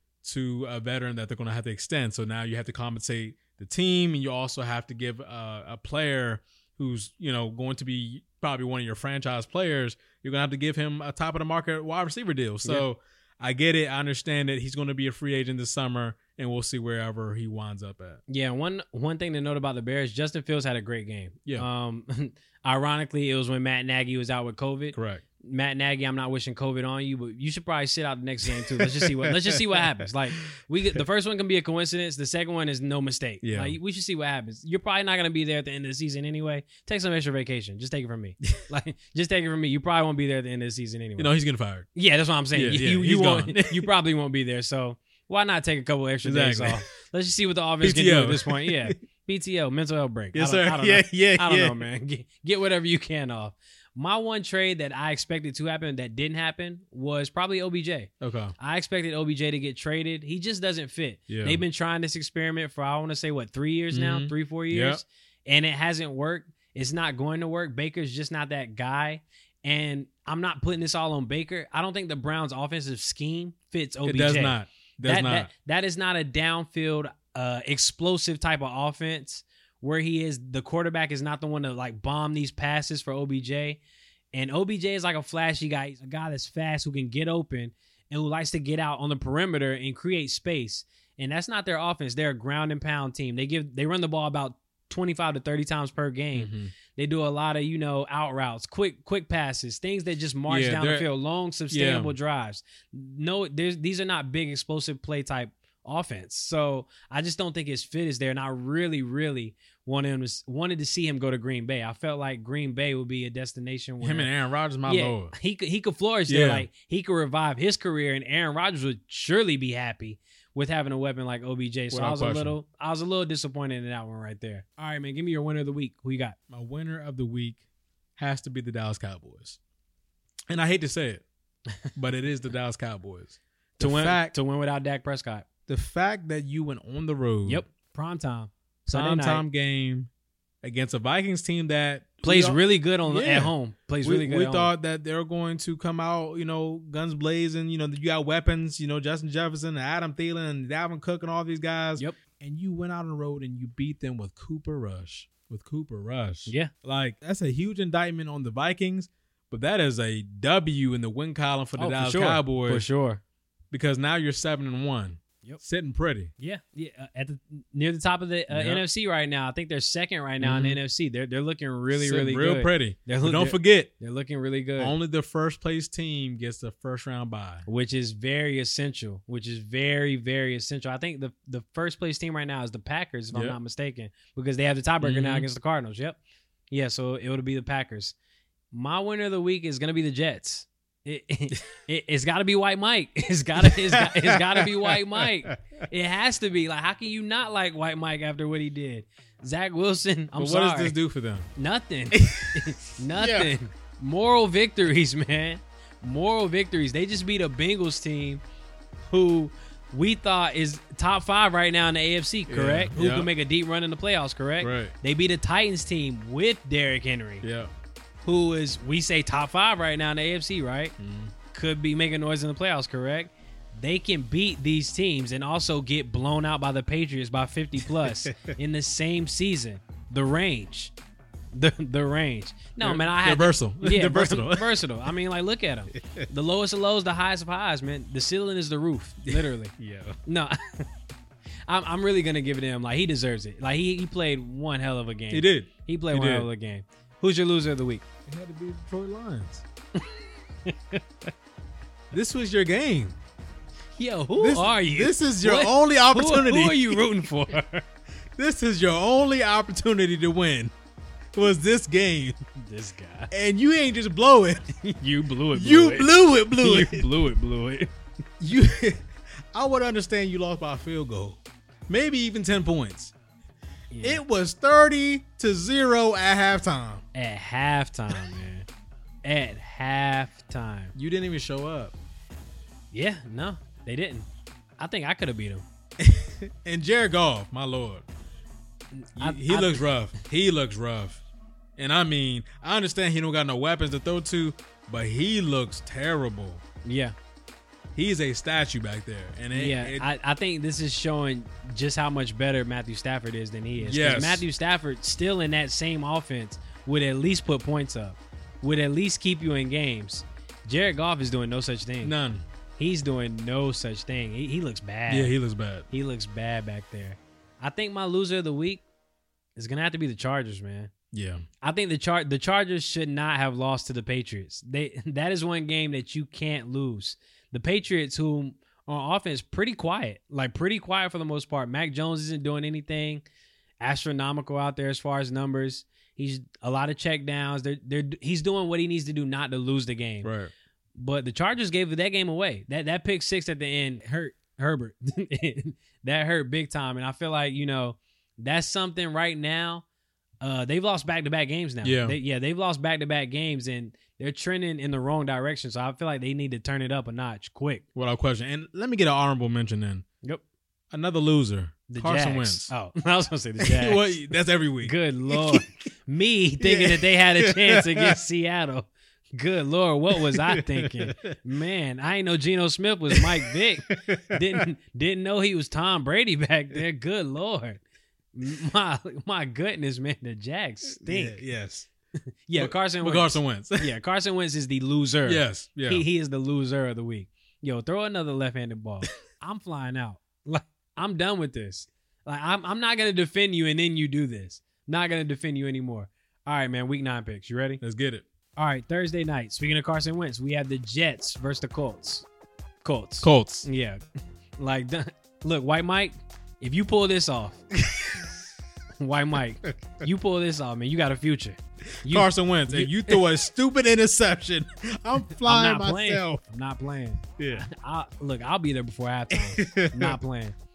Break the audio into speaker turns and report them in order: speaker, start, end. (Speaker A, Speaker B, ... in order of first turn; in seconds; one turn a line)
Speaker A: 0.2-18.2
Speaker B: 18.3-41.3
Speaker A: 24.9-25.2
Speaker A: 28.5-29.8
Speaker A: 33.4-33.8
Speaker A: 41.2-41.9
Speaker B: 41.9-83.8
Speaker A: 42.5-43.9
Speaker A: 46.2-46.8
Speaker A: 47.8-49.0
Speaker A: 50.3-51.8
Speaker A: 58.2-58.5
Speaker A: 61.3-61.6
Speaker A: 63.9-65.0
Speaker A: 74.0-75.5
Speaker B: 84.3-114.3
Speaker A: 96.3-96.7
Speaker A: 100.5-101.1
Speaker A: 101.7-102.1
Speaker A: 114.0-115.3
Speaker B: 114.8-126.3
Speaker A: 116.3-116.7
Speaker A: 121.9-122.5
Speaker A: 126.5-127.6
Speaker A: 128.2-129.6
Speaker A: 130.5-131.2
Speaker A: 131.9-134.3
Speaker B: 133.8-135.5
Speaker A: 135.7-137.6
Speaker B: 137.4-139.4
Speaker A: 138.9-140.1
Speaker A: 140.6-162.8
Speaker B: 142.2-144.7
Speaker B: 156.5-156.7
Speaker B: 161.8-163.2
Speaker A: 163.7-166.3
Speaker B: 166.4-174.9
Speaker A: 168.5-168.8
Speaker A: 170.4-170.8
Speaker A: 171.9-173.9
Speaker A: 174.8-177.7
Speaker B: 177.7-186.2
Speaker A: 185.0-185.5
Speaker B: 186.7-188.1
Speaker B: 188.7-200.9
Speaker A: 193.6-195.6
Speaker A: 200.3-201.5
Speaker B: 201.6-208.4
Speaker A: 202.1-203.5
Speaker B: 209.1-217.4
Speaker A: 212.5-213.3
Speaker A: 214.6-214.9
Speaker A: 217.4-217.7
Speaker B: 218.2-220.9
Speaker A: 221.0-221.3
Speaker B: 221.5-230.9
Speaker A: 227.9-228.5
Speaker B: 231.5-239.7
Speaker A: 232.8-234.8
Speaker A: 235.9-236.3
Speaker A: 239.2-240.2
Speaker B: 240.2-240.9
Speaker B: 241.7-248.0
Speaker A: 245.3-246.5
Speaker A: 248.3-249.6
Speaker B: 250.7-251.3
Speaker A: 252.1-253.2
Speaker B: 253.9-257.9
Speaker A: 254.4-257.1
Speaker A: 258.4-260.7
Speaker A: 261.3-262.4
Speaker B: 262.6-263.3
Speaker A: 263.3-264.7
Speaker B: 264.8-267.9
Speaker A: 265.5-267.1
Speaker A: 268.4-273.1
Speaker B: 273.9-274.2
Speaker A: 274.0-277.0
Speaker B: 277.1-278.7
Speaker B: 279.2-280.9
Speaker A: 280.9-281.9
Speaker B: 282.9-284.3
Speaker B: 284.8-285.6
Speaker A: 286.0-288.1
Speaker B: 288.9-289.9
Speaker A: 289.1-291.2
Speaker A: 291.8-296.6
Speaker B: 296.8-297.1
Speaker A: 297.9-300.1
Speaker B: 299.5-312.1
Speaker A: 303.8-304.4
Speaker A: 312.0-312.4
Speaker B: 312.8-315.3
Speaker A: 315.1-315.9
Speaker B: 315.9-318.8
Speaker B: 319.6-320.9
Speaker A: 321.1-321.4
Speaker B: 321.6-333.2
Speaker B: 333.8-340.3
Speaker A: 340.2-340.5
Speaker B: 340.9-349.8
Speaker B: 350.4-357.8
Speaker A: 351.8-352.2
Speaker A: 357.9-360.0
Speaker A: 360.9-362.7
Speaker B: 361.9-364.2
Speaker A: 363.6-365.7
Speaker B: 364.8-377.8
Speaker A: 366.6-368.2
Speaker A: 370.1-371.4
Speaker A: 373.1-374.6
Speaker B: 378.3-381.4
Speaker A: 380.9-381.9
Speaker B: 382.5-397.8
Speaker A: 382.6-383.9
Speaker A: 385.2-386.0
Speaker A: 397.8-398.2
Speaker B: 398.6-402.2
Speaker B: 402.8-404.0
Speaker A: 403.2-403.6
Speaker B: 404.6-407.6
Speaker A: 407.9-408.3
Speaker B: 409.0-413.2
Speaker A: 412.0-416.4
Speaker B: 415.4-420.5
Speaker A: 417.4-417.6
Speaker A: 419.3-420.2